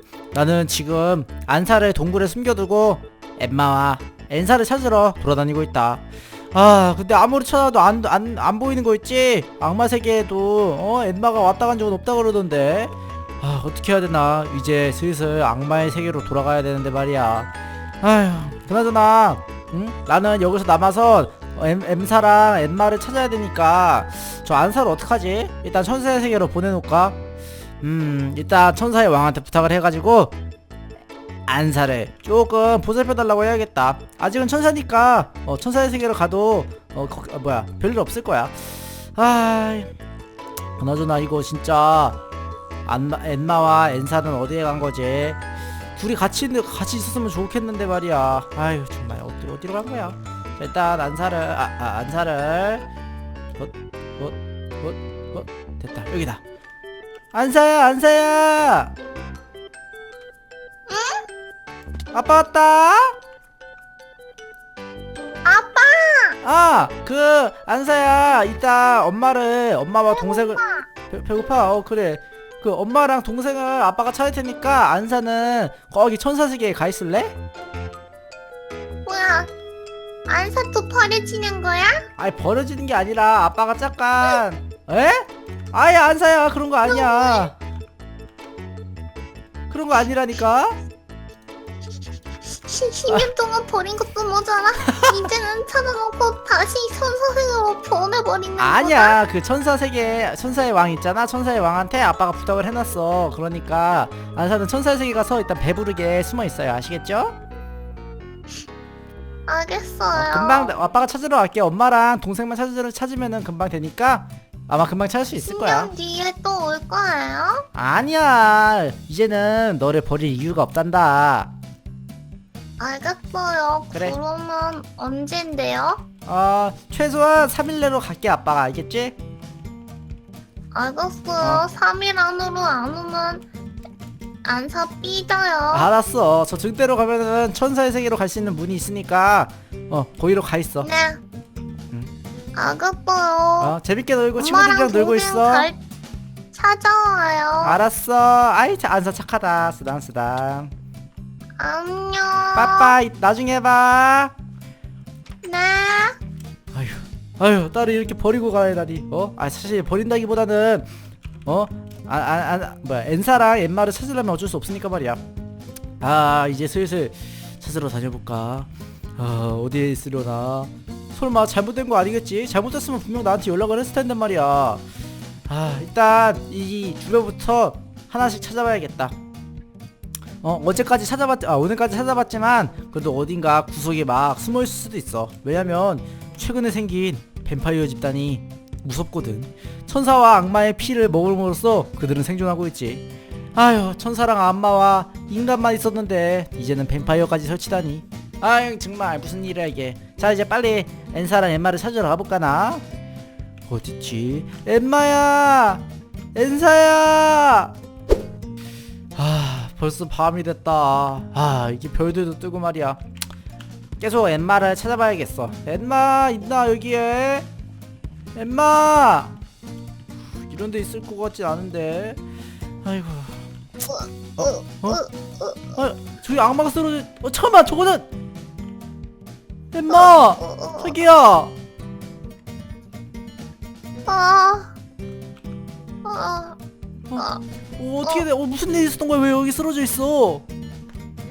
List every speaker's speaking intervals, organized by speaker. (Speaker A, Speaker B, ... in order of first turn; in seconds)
Speaker A: 0.3-27.2, 27.8-30.3, 31.5-39.9, 40.8-42.2, 42.9-45.4, 46.0-52.8, 53.6-56.4, 57.3-58.9, 62.1-63.2, 66.4-77.3, 82.2-87.5, 89.7-90.8, 94.9-95.2, 98.6-107.4, 110.1-115.9, 117.7-121.5, 123.9-124.2, 126.2-129.2, 131.4-131.6, 135.7-140.9, 143.6-145.7, 147.6-150.7, 152.5-154.3, 156.7-160.9, 161.4-165.2, 166.0-174.8, 175.5-179.1, 180.4-202.8, 203.7-207.7, 209.2-213.0, 214.0-217.5, 218.3-219.4, 220.4-222.2, 222.8-223.4, 224.4-225.0, 225.8-228.1, 229.7-231.5, 237.8-240.4
Speaker B: 60.9-61.3, 65.4-66.4, 70.1-70.9, 79.0-79.5, 80.3-82.0, 86.8-87.5, 92.5-99.2, 109.5-110.7, 115.3-117.7, 122.8-126.0, 130.7-133.5, 134.4-135.9, 140.8-141.2, 142.5-143.8, 144.4-145.8, 146.5-147.8, 151.6-153.0, 155.4-156.2, 223.8-225.8, 229.9-230.9, 234.1-234.7, 236.0-236.6, 237.2-237.4